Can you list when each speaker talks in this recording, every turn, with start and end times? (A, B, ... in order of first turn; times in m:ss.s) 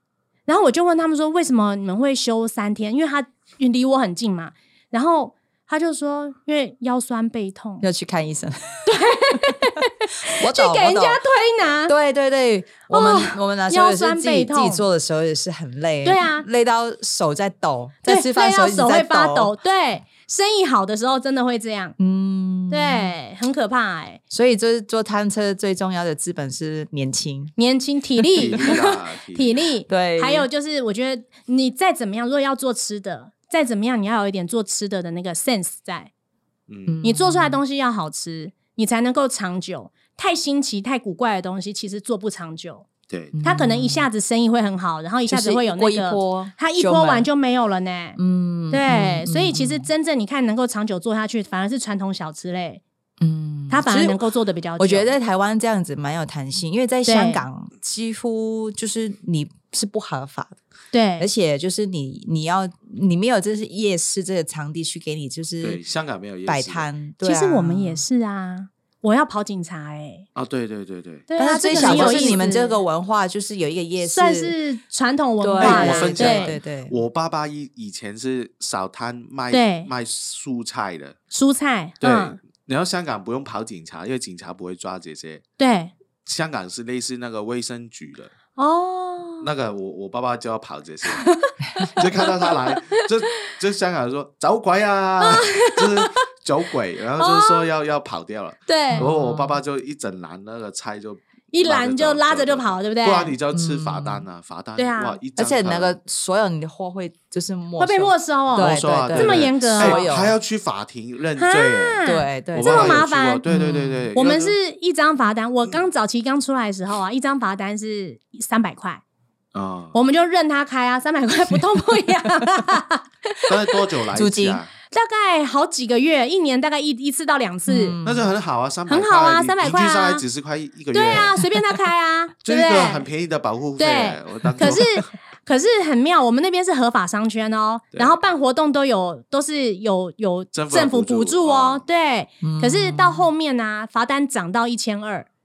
0:00.5-0:07.9 A
0:07.8-0:09.6 B
0:08.8-0:11.9 A
0:10.4-0:11.2 B
0:11.9-0:19.5 B
0:12.9-0:14.8 A
0:16.0-0:16.4 A
0:18.0-0:22.0 A
0:22.0-0:23.1 B
0:22.7-0:24.2 A
0:24.3-0:27.5 B
0:27.6-0:36.1 A
0:28.4-0:29.6 C
0:29.9-0:30.5 B
0:36.7-0:37.0 C
0:36.9-0:37.6 B
0:37.0-0:42.9 A
0:43.1-0:43.4 C
0:43.3-0:44.1 B
0:43.4-0:48.2 A
0:45.3-0:47.3 B
0:48.2-0:49.9 B
0:48.7-0:52.8 A
0:53.2-0:54.2 B
0:53.7-0:55.1 A
0:54.8-1:00.6 B
0:57.0-0:57.4 A
1:00.9-1:01.3 A
1:01.2-1:05.8 B
1:05.6-1:06.9 C
1:06.5-1:08.0 B
1:07.2-1:10.3 A
1:10.3-1:12.4 C
1:11.3-1:12.8 A
1:11.4-1:14.5 B
1:14.0-1:16.5 A
1:15.4-1:16.9 B
1:15.6-1:21.2 C
1:19.5-1:19.9 A
1:21.3-1:22.4 A
1:22.0-1:25.4 C
1:25.6-1:25.9 A
1:26.2-1:28.3 C
1:28.6-1:29.5 A
1:29.4-1:31.3 C
1:31.1-1:32.2 A
1:31.8-1:46.0 C
1:35.2-1:36.2 A
1:37.2-1:37.7 A
1:38.7-1:39.1 A
1:38.9-1:39.6 B
1:41.5-1:43.3 A
1:43.5-1:44.2 B
1:44.8-1:45.2 A
1:45.4-1:50.3 B
1:47.8-1:50.1 A
1:48.5-1:54.6 C
1:51.4-1:53.4 A
1:52.0-1:54.1 B
1:54.1-1:59.0 A
1:59.5-2:00.0 C
1:59.9-2:03.5 A
2:03.4-2:04.7 C
2:04.1-2:04.6 B
2:04.9-2:08.0 A
2:07.7-2:08.3 B
2:08.0-2:11.4 C
2:08.9-2:10.2 A
2:10.9-2:13.1 A
2:12.4-2:15.0 C
2:13.8-2:25.3 A
2:20.5-2:21.8 C
2:22.4-2:23.3 B